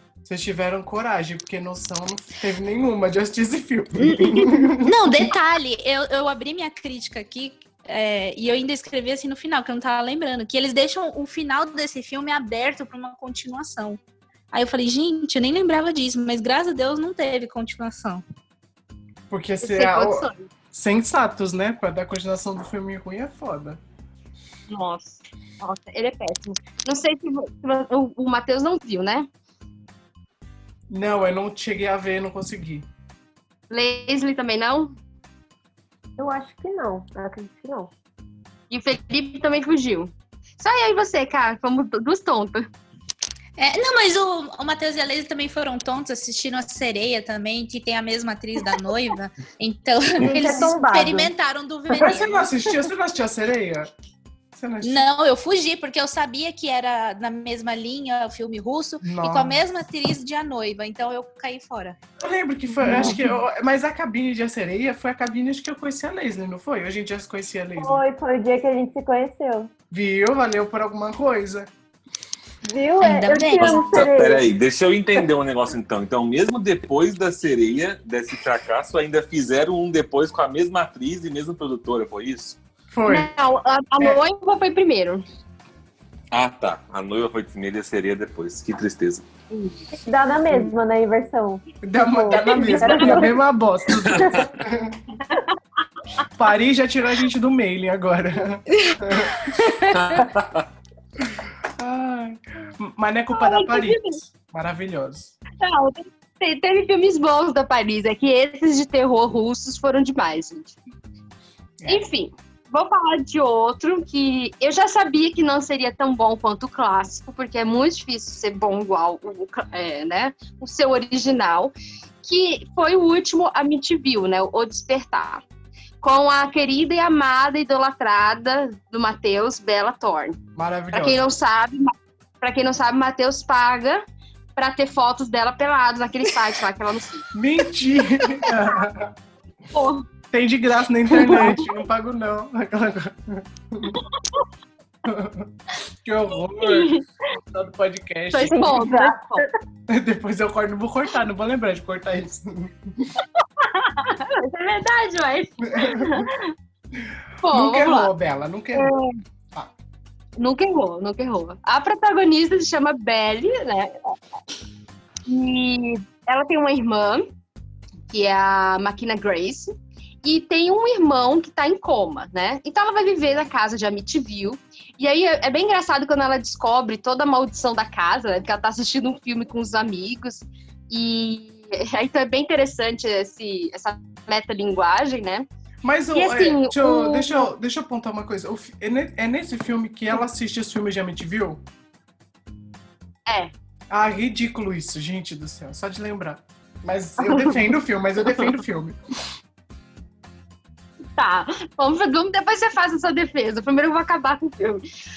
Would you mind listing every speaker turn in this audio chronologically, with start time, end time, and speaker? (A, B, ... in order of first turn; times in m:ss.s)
0:00.2-0:05.3 A
0:04.0-0:14.0 B
0:14.5-0:18.2 B
0:19.3-0:23.8 A
0:19.6-0:20.4 C
0:24.7-0:29.3 C
0:30.9-0:32.9 A
0:33.7-0:34.9 C
0:36.2-0:37.9 D
0:38.7-0:42.7 C
0:43.6-0:52.5 B
0:50.2-0:51.3 D
0:52.0-0:53.9 A
0:54.5-0:55.0 A
0:54.8-1:02.0 B
0:59.0-0:59.6 A
1:02.2-1:08.0 A
1:02.8-1:03.1 B
1:07.8-1:09.7 D
1:09.9-1:11.7 A
1:12.6-1:14.4 D
1:13.0-1:14.1 B
1:13.6-1:22.6 E
1:22.9-1:23.3 A
1:23.0-1:25.2 C
1:26.3-1:29.3 E
1:29.5-1:29.9 C
1:30.0-1:33.4 D
1:31.8-1:35.0 A
1:32.5-1:33.2 C
1:34.0-1:34.5 D
1:35.3-1:35.6 C
1:36.3-1:39.5 A
1:38.7-1:40.2 B
1:39.9-1:40.6 E
1:41.4-1:45.4 A
1:43.3-1:44.2 C
1:45.6-1:50.8 C
1:51.9-2:05.4 C
2:06.0-2:10.4 C
2:10.6-2:11.2 A
2:10.9-2:14.0 C
2:14.6-2:17.3 C
2:17.3-2:19.1 A
2:18.2-2:18.8 C
2:19.7-2:20.0 C
2:20.3-2:24.0 A
2:21.1-2:21.7 C
2:21.3-2:21.6 D
2:23.9-2:24.4 C
2:25.0-2:25.5 A
2:26.0-2:26.9 A
2:26.6-2:27.0 C
2:27.5-2:28.9 A
2:28.3-2:29.5 C
2:28.5-2:29.5 D
2:29.9-2:33.1 A
2:33.4-2:36.5 C
2:35.7-2:36.3 A
2:37.4-2:38.1 C
2:37.4-2:38.9 A
2:38.7-2:39.1 C
2:40.4-2:44.1 C
2:45.2-2:47.3 C
2:48.1-2:49.7 C
2:50.2-3:05.4 C
3:05.8-3:11.6 A
3:06.1-3:07.5 C
3:13.3-3:13.5 C
3:13.9-3:19.0 A
3:17.2-3:17.6 C
3:21.1-3:24.8 C